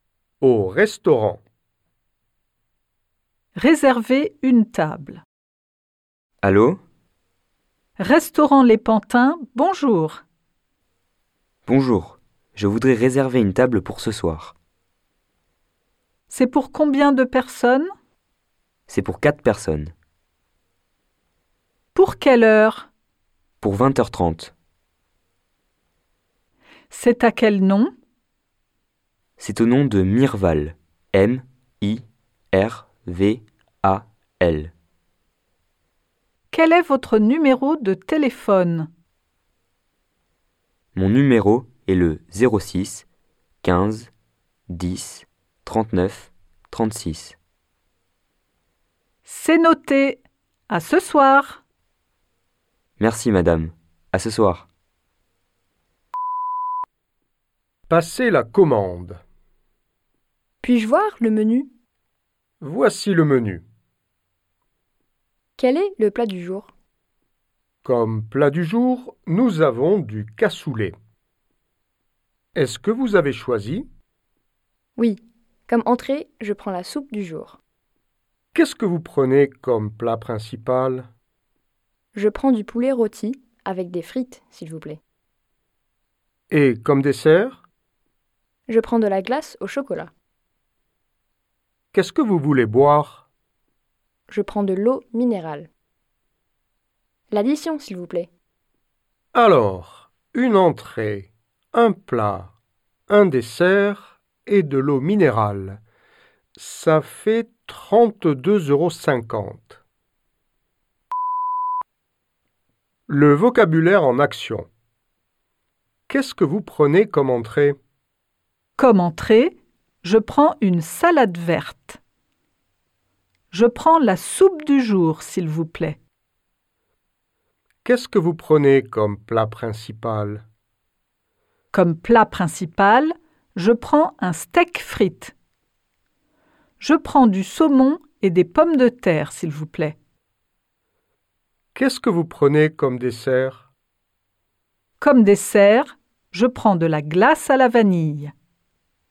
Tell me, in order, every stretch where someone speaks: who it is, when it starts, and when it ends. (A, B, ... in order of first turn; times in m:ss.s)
0:00.4-0:01.4 A
0:03.6-0:05.2 B
0:06.4-0:06.8 C
0:08.0-0:10.2 B
0:11.7-0:14.6 C
0:16.3-0:17.9 B
0:18.9-0:19.9 C
0:22.0-0:22.9 B
0:23.6-0:24.5 C
0:26.9-0:27.9 B
0:29.4-0:34.7 C
0:36.5-0:38.9 B
0:41.0-0:43.1 C
0:43.6-0:44.1 C
0:44.7-0:47.4 C
0:49.3-0:51.6 B
0:53.0-0:54.7 C
0:57.9-0:59.2 A
1:00.6-1:01.7 D
1:02.6-1:03.6 A
1:05.6-1:06.7 D
1:07.8-1:11.0 A
1:12.6-1:13.9 A
1:15.0-1:17.6 D
1:18.5-1:21.1 A
1:22.1-1:25.0 D
1:26.5-1:27.6 A
1:28.7-1:30.1 D
1:31.9-1:33.2 A
1:34.3-1:35.7 D
1:37.3-1:38.3 D
1:39.3-1:42.5 A
1:43.1-1:45.8 A
1:46.6-1:49.8 A
1:53.1-1:54.7 A
1:56.1-1:57.8 A
1:58.8-2:02.0 B
2:03.5-2:06.0 B
2:07.8-2:10.4 A
2:11.7-2:15.3 B
2:16.8-2:20.0 B
2:21.8-2:23.7 A
2:25.0-2:28.3 B